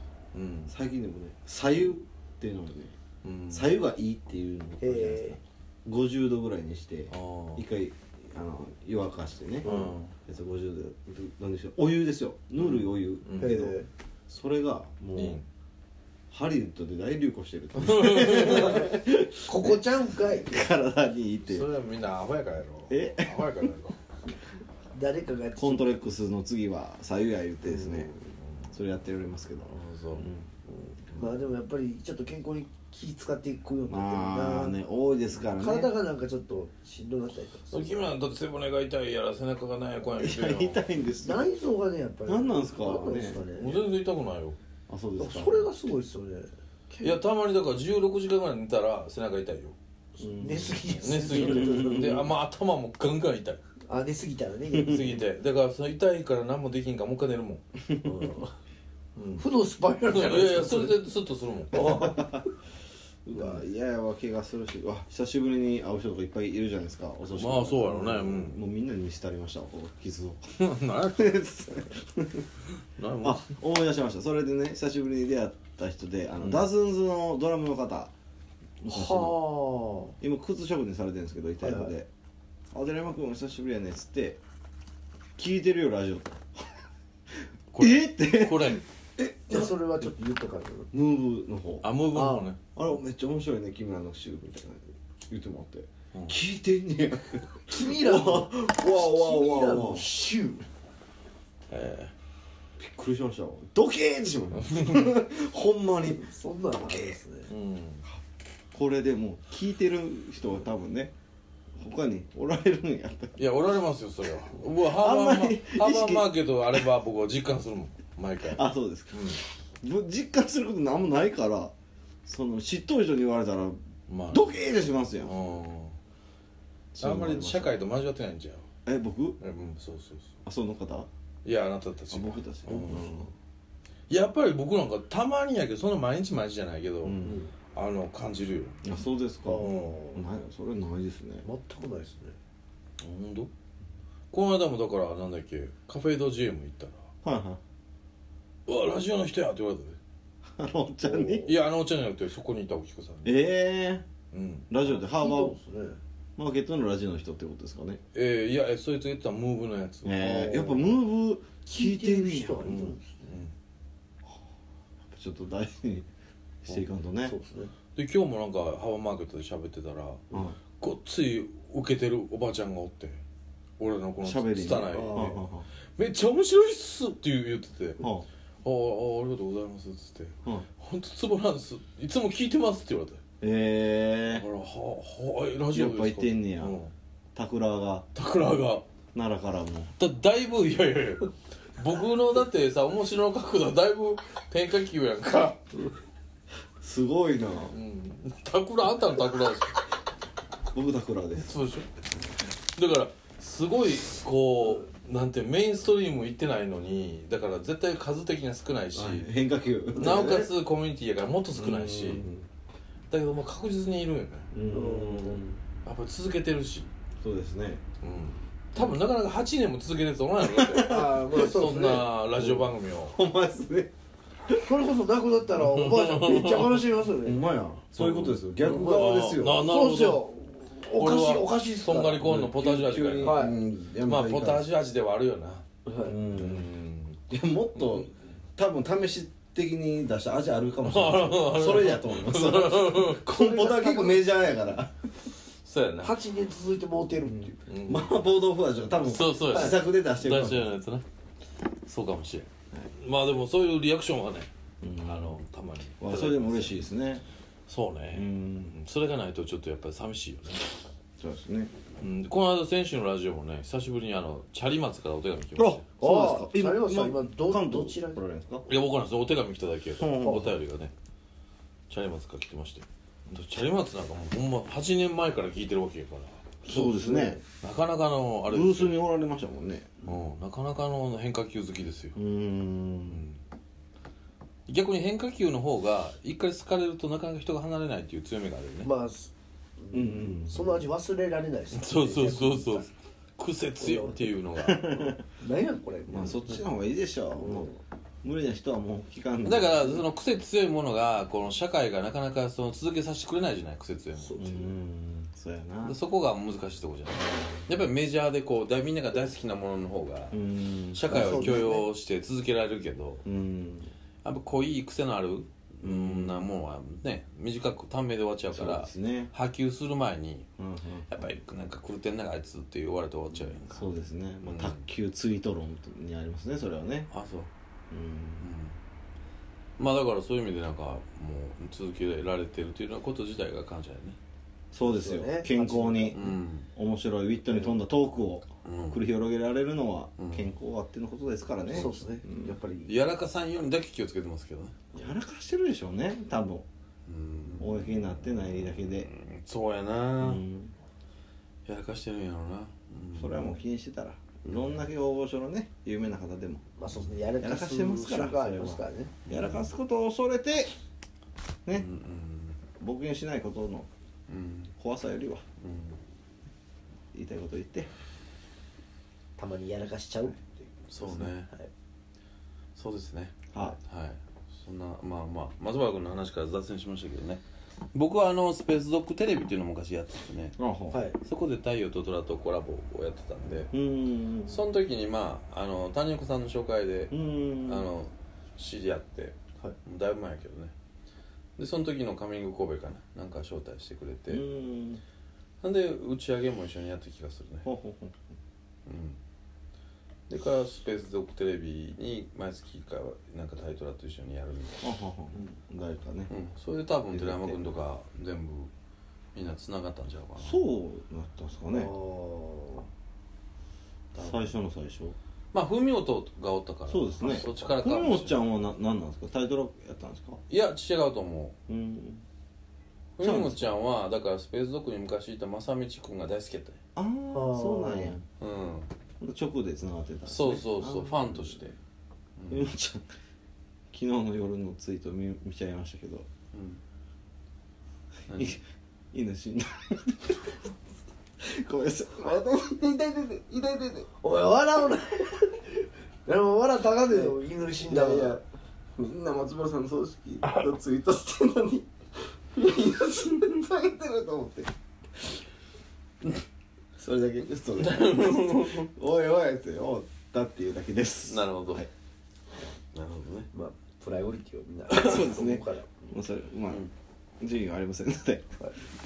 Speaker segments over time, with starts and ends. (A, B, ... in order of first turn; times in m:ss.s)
0:00.3-0:00.7 A
0:00.7-0:03.0 B
0:03.2-0:03.8 A
0:03.5-0:15.4 B
0:04.8-0:05.4 C
0:07.1-0:07.7 A
0:09.6-0:10.1 A
0:09.6-0:09.9 C
0:12.6-0:13.6 A
0:13.4-0:13.9 C
0:15.2-0:15.5 A
0:16.3-0:21.7 B
0:17.8-0:18.8 A
0:18.5-0:18.9 C
0:19.4-0:20.5 C
0:21.4-0:24.0 A
0:22.9-0:23.6 B
0:24.9-0:25.9 C
0:25.6-0:28.1 B
0:27.7-0:28.7 A
0:28.7-0:30.6 B
0:29.7-0:31.2 A
0:31.1-0:34.8 C
0:33.9-0:35.9 B
0:35.4-0:38.1 C
0:37.7-0:40.8 A
0:40.2-0:41.5 B
0:41.2-0:43.9 C
0:42.2-0:43.4 B
0:43.4-0:44.6 A
0:44.9-0:45.7 B
0:45.2-0:47.2 C
0:47.0-0:49.8 A
0:50.2-0:52.3 C
0:50.2-0:52.3 B
0:51.0-0:53.6 A
0:53.9-0:55.2 C
0:54.7-0:55.0 B
0:54.8-0:57.6 A
0:57.9-0:58.2 B
0:58.0-0:58.6 C
0:59.2-0:59.5 A
0:59.4-1:01.1 C
1:00.1-1:02.1 A
1:01.7-1:02.4 C
1:01.7-1:02.5 B
1:03.3-1:10.4 B
1:03.4-1:03.6 C
1:07.4-1:08.6 A
1:10.6-1:11.6 A
1:11.1-1:12.5 B
1:12.8-1:13.5 A
1:13.2-1:18.1 B
1:16.4-1:16.7 A
1:18.8-1:19.4 B
1:18.9-1:20.2 C
1:20.2-1:22.1 B
1:21.6-1:22.0 C
1:22.7-1:24.4 B
1:25.4-1:26.6 B
1:27.7-1:28.8 A
1:27.8-1:30.1 B
1:29.5-1:30.9 C
1:30.9-1:31.9 B
1:31.8-1:32.6 A
1:32.1-1:32.5 C
1:32.8-1:40.1 B
1:37.7-1:40.6 C
1:41.7-1:42.1 A
1:42.8-1:47.2 B
1:44.6-1:45.1 A
1:46.1-1:47.5 C
1:47.5-1:48.0 A
1:48.7-1:51.1 B
1:51.8-1:53.4 B
1:53.4-1:59.4 A
1:54.6-1:56.9 B
1:58.4-2:01.7 B
2:02.3-2:03.8 B
2:04.1-2:04.5 A
2:04.3-2:05.3 B
2:05.2-2:06.0 A
2:06.9-2:07.8 B
2:07.0-2:08.7 A
2:08.8-2:09.4 B
2:09.4-2:10.4 A
2:10.4-2:11.1 B
2:11.4-2:13.1 A
2:12.1-2:13.3 B
2:12.9-2:13.2 C
2:14.1-2:17.2 A
2:17.0-2:17.4 B
2:17.2-2:17.5 C
2:17.7-2:18.8 A
2:18.8-2:21.5 B
2:19.4-2:20.2 C
2:19.6-2:20.0 A
2:21.4-2:22.4 C
2:23.0-2:23.5 A
2:24.3-2:27.1 A
2:27.2-2:27.6 B
2:28.7-2:30.0 A
2:30.6-2:31.6 B
2:31.0-2:31.6 C
2:31.4-2:33.4 A
2:33.2-2:34.1 B
2:34.3-2:34.7 A
2:34.7-2:35.6 B
2:34.9-2:36.0 C
2:36.4-2:38.0 B
2:38.1-2:40.6 A
2:40.0-2:42.8 B
2:40.4-2:41.0 C
2:41.6-2:43.3 C
2:42.6-2:43.5 A
2:45.0-2:46.1 B
2:46.6-2:47.4 B
2:46.7-2:47.7 C
2:48.0-2:50.2 A
2:50.3-2:50.6 B
2:50.8-2:53.2 A
2:53.8-2:55.4 A
2:54.2-2:55.7 B
2:54.9-2:55.4 C
2:56.0-2:58.0 A
2:58.0-2:58.3 B
2:58.6-3:03.2 A
3:03.4-3:04.5 B
3:04.3-3:06.9 A
3:05.7-3:06.8 B
3:07.4-3:08.1 B
3:08.2-3:08.8 A
3:09.1-3:09.9 B
3:10.0-3:15.6 A
3:16.8-3:17.8 B
3:17.7-3:19.8 A
3:20.7-3:21.6 B
3:21.4-3:21.9 A
3:22.8-3:29.3 A
3:28.9-3:30.5 B
3:29.9-3:32.3 A
3:31.5-3:32.5 B
3:33.1-3:34.5 A
3:34.5-3:35.6 B
3:34.7-3:35.6 C
3:35.8-3:36.9 A
3:37.2-3:37.8 B
3:38.0-3:43.2 A
3:40.4-3:41.5 B
3:40.9-3:42.1 C
3:42.4-3:43.9 B
3:44.6-3:47.4 C
3:45.6-3:46.8 A
3:47.2-3:49.7 B
3:47.9-3:50.3 A
3:48.7-3:52.2 C
3:50.8-3:55.6 A
3:52.2-3:54.7 B
3:53.2-3:53.6 C
3:55.9-3:56.2 C
3:55.9-3:56.7 B
3:56.3-3:57.2 A
3:57.3-4:05.0 B
3:57.8-3:58.1 A
4:00.8-4:03.2 A
4:03.2-4:04.3 C
4:05.6-4:06.2 A
4:06.0-4:07.6 C
4:07.2-4:10.7 B
4:07.7-4:08.1 A
4:09.0-4:11.0 A
4:11.8-4:16.8 A
4:14.8-4:15.4 B
4:16.0-4:17.2 B
4:17.7-4:20.7 A
4:18.1-4:18.8 B
4:21.2-4:21.7 B
4:22.0-4:25.8 A
4:25.6-4:28.7 B
4:26.0-4:28.2 C
4:28.7-4:30.9 A
4:30.0-4:30.6 B
4:31.9-4:39.0 A
4:36.6-4:37.4 B
4:36.7-4:37.4 C
4:38.5-4:40.0 B
4:40.0-4:42.2 A
4:42.2-4:43.3 B
4:43.1-4:43.4 A
4:44.7-4:48.9 A
4:48.8-4:52.9 C
4:49.9-4:50.8 B
4:51.7-4:55.0 A
4:53.8-4:54.3 C
4:54.6-4:55.2 B
4:54.8-4:56.6 C
4:56.1-5:00.0 B
4:57.4-4:57.8 C
4:59.4-5:04.5 A
5:04.2-5:04.7 C
5:04.4-5:06.0 B
5:05.8-5:10.4 A
5:07.2-5:07.9 B
5:10.3-5:11.8 B
5:10.9-5:13.2 A
5:11.1-5:11.9 C
5:13.2-5:13.9 B
5:14.2-5:20.5 A
5:15.8-5:16.5 B
5:18.5-5:19.3 B
5:20.6-5:21.1 B
5:21.1-5:23.9 A
5:23.6-5:27.1 B
5:24.4-5:24.8 A
5:27.1-5:27.5 A
5:27.9-5:28.5 B
5:28.4-5:28.8 A
5:29.8-5:34.2 A
5:34.7-5:42.6 B
5:34.8-5:36.2 C
5:36.1-5:36.7 A
5:37.5-5:37.8 C
5:38.6-5:39.0 A
5:40.2-5:40.5 A
5:41.7-5:43.0 C
5:42.8-5:44.8 A
5:45.0-5:46.6 B
5:47.1-5:50.4 A
5:47.6-5:49.1 B
5:50.2-5:50.7 B
5:51.7-5:53.6 A
5:53.2-5:56.6 B
5:54.4-5:54.9 A
5:56.8-5:59.2 C
5:57.4-6:00.7 B
5:59.3-5:59.7 A
6:01.7-6:02.6 A
6:02.8-6:03.9 B
6:04.3-6:04.7 A
6:04.8-6:05.4 B
6:05.6-6:06.0 A
6:07.1-6:07.9 B
6:09.4-6:11.7 C
6:10.9-6:11.5 A
6:12.8-6:20.6 A
6:13.5-6:13.8 B
6:20.6-6:21.0 B
6:20.9-6:21.2 C
6:21.2-6:23.7 A
6:23.6-6:24.6 B
6:24.4-6:30.7 A
6:27.1-6:27.9 B
6:31.6-6:34.4 A
6:34.3-6:35.0 B
6:35.6-6:37.7 A
6:37.6-6:38.3 B
6:38.9-6:39.2 A
6:40.3-6:44.9 A
6:44.8-6:46.3 B
6:46.3-6:48.7 A
6:47.1-6:47.7 B
6:49.4-6:50.6 A
6:50.4-6:52.0 B
6:51.7-6:52.9 C
6:54.1-6:54.6 A
6:54.2-6:55.2 B
6:55.5-6:58.4 A
6:56.9-7:00.4 B
7:00.5-7:01.6 A
7:01.7-7:02.2 B
7:03.2-7:06.8 A
7:03.2-7:03.8 B
7:07.0-7:08.2 B
7:07.3-7:08.2 C
7:08.4-7:08.9 A
7:09.2-7:11.6 B
7:10.3-7:11.8 A
7:12.4-7:12.7 A
7:12.5-7:13.1 B
7:13.9-7:16.3 B
7:16.5-7:16.8 A
7:18.3-7:18.6 B
7:19.1-7:20.6 B
7:21.4-7:24.1 B
7:24.2-7:28.4 C
7:27.1-7:28.4 B
7:29.0-7:31.9 B
7:32.5-7:34.7 B
7:37.0-7:41.9 B
7:37.8-7:38.9 A
7:41.2-7:41.9 A
7:42.9-7:43.5 A
7:43.5-7:45.9 C
7:44.9-7:46.9 B
7:47.4-7:48.6 B